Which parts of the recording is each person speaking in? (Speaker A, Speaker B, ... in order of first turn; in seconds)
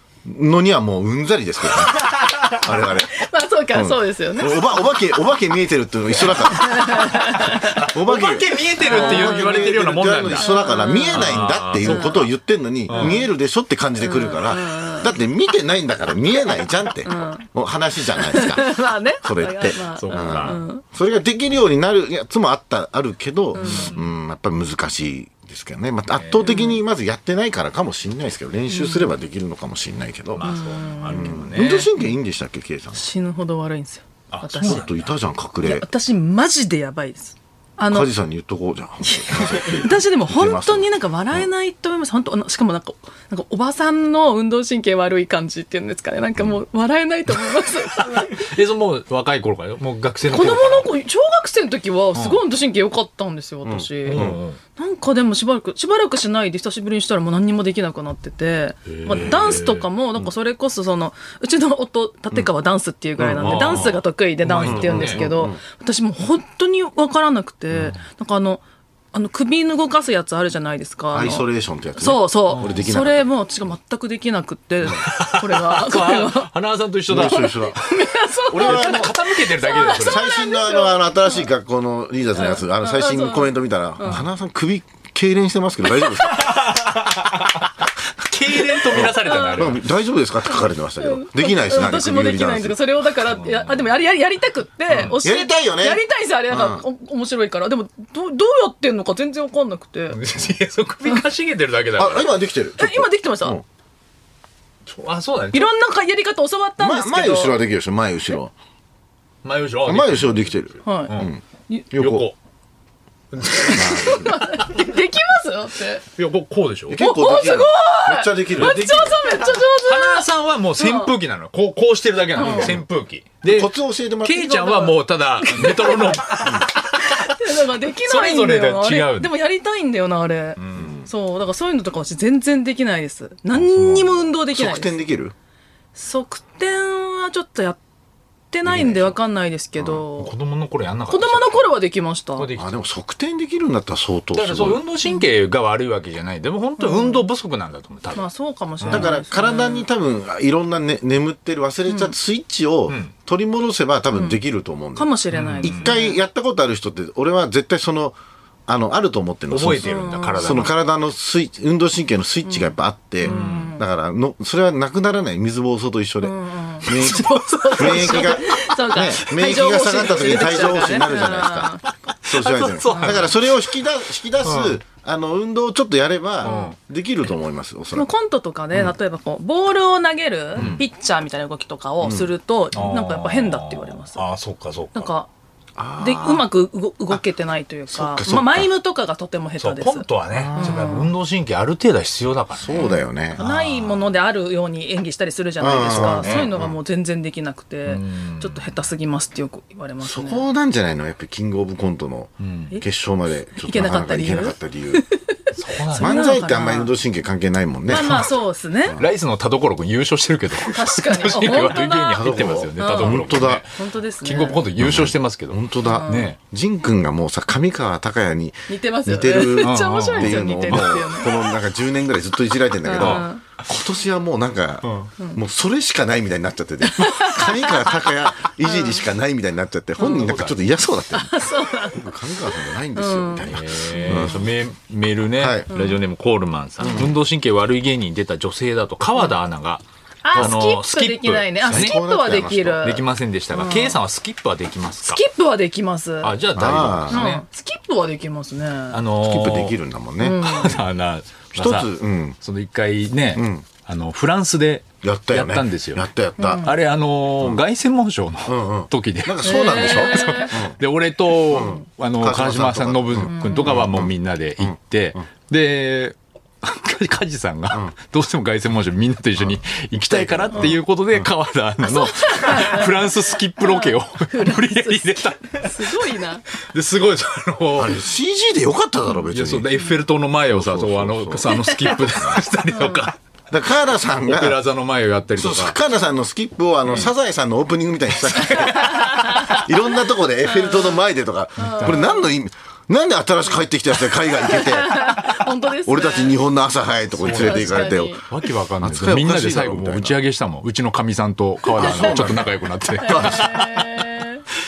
Speaker A: 0.2-33.0, 34.6-35.9, 37.9-41.5, 53.6-54.4, 63.2-64.0, 64.6-65.6, 71.1-73.3, 77.1-77.8, 78.5-79.2, 79.8-86.6, 88.9-92.8, 95.2-96.8, 102.0-103.6, 106.8-108.5, 109.8-112.3, 113.7-114.4, 116.9-119.3, 122.4-122.8, 123.4-124.9, 133.6-135.3, 138.6-139.2, 139.8-140.0, 142.6-144.8, 148.9-178.1, 180.6-180.8, 182.0-182.3, 185.8-186.5, 187.9-188.7, 190.3-191.1, 192.6-193.4, 195.6-196.8, 200.0-205.0, 205.9-208.3, 212.1-213.6, 214.8-234.5, 235.4-235.7, 236.8-237.2, 240.3-240.6, 241.7-243.0, 246.6-247.3, 249.2-250.5, 251.6-252.4, 253.3-253.7, 255.0-256.7, 258.5-260.8, 261.5-264.8, 269.4-271.3, 277.8-279.7, 280.5-282.4, 283.5-284.6, 285.4-295.3, 295.9-298.2, 298.8-300.2, 301.8-303.5
Speaker B: 3.1-4.7, 6.5-7.8, 8.8-12.3, 12.9-13.3, 14.0-15.1, 17.0-17.4, 18.1-20.8, 23.5-23.9, 26.4-26.8, 28.7-29.1, 30.4-31.5, 33.0-34.9, 35.6-38.1, 39.0-48.5, 50.3-71.5, 72.0-76.5, 77.2-81.4, 82.4-84.2, 88.7-89.8, 91.0-100.2, 102.8-103.6, 105.5-107.6, 110.8-111.1, 113.5-116.0, 117.0-121.1, 122.4-122.8, 124.5-135.0, 135.9-137.8, 138.5-140.3, 141.1-142.5, 146.8-147.2, 148.2-149.9, 151.9-152.1, 154.1-154.4, 155.0-156.2, 159.7-160.7, 162.5-163.8, 166.2-171.8, 172.8-173.2, 176.4-176.8, 177.9-184.2, 184.9-185.3, 186.0-191.1, 192.8-200.4, 203.6-206.9, 207.9-209.0, 210.7-214.6, 215.8-216.3, 218.7-221.3, 222.8-223.4, 226.8-229.0, 230.0-230.3, 231.1-234.4, 235.7-236.0, 240.2-244.0, 245.0-246.4, 247.1-249.0, 250.2-250.8, 256.4-256.7, 259.4-260.6, 263.2-263.8, 271.9-276.5, 281.5-282.1, 282.7-283.1, 288.6-289.7, 290.4-291.0, 291.6-292.3, 294.2-296.4, 297.3-298.2, 301.8-302.4, 303.0-304.4
Speaker C: 7.6-10.5, 11.1-12.3, 12.9-13.2, 19.8-20.6, 23.6-24.1, 26.1-26.6, 30.3-31.9, 34.3-35.1, 48.2-50.9, 52.1-52.4, 54.1-54.6, 58.9-59.9, 63.4-65.2, 72.5-72.8, 75.0-77.9, 78.6-80.3, 86.2-89.8, 93.3-93.8, 94.9-95.2, 100.1-102.4, 104.9-105.7, 109.4-111.3, 112.0-112.3, 113.3-114.7, 116.2-117.0, 118.5-118.8, 119.8-129.3, 130.6-131.1, 140.2-141.7, 142.4-142.7, 144.3-148.3, 148.8-149.1, 155.3-156.0, 159.5-160.7, 163.2-163.8, 166.9-168.6, 172.2-173.7, 174.4-174.8, 176.4-176.7, 180.6-180.8, 182.7-185.1, 189.6-194.1, 195.8-196.5, 197.9-198.7, 202.4-202.7, 205.6-206.1, 208.0-208.3, 209.0-216.4, 219.6-221.1, 223.0-223.3, 224.8-225.1, 230.1-230.6, 233.4-242.0, 242.8-245.2, 246.2-247.4, 248.9-249.8, 250.4-251.9, 252.4-256.1, 256.6-276.0, 276.6-278.0, 279.3-283.2, 284.2-285.8, 288.2-289.2, 297.2-303.8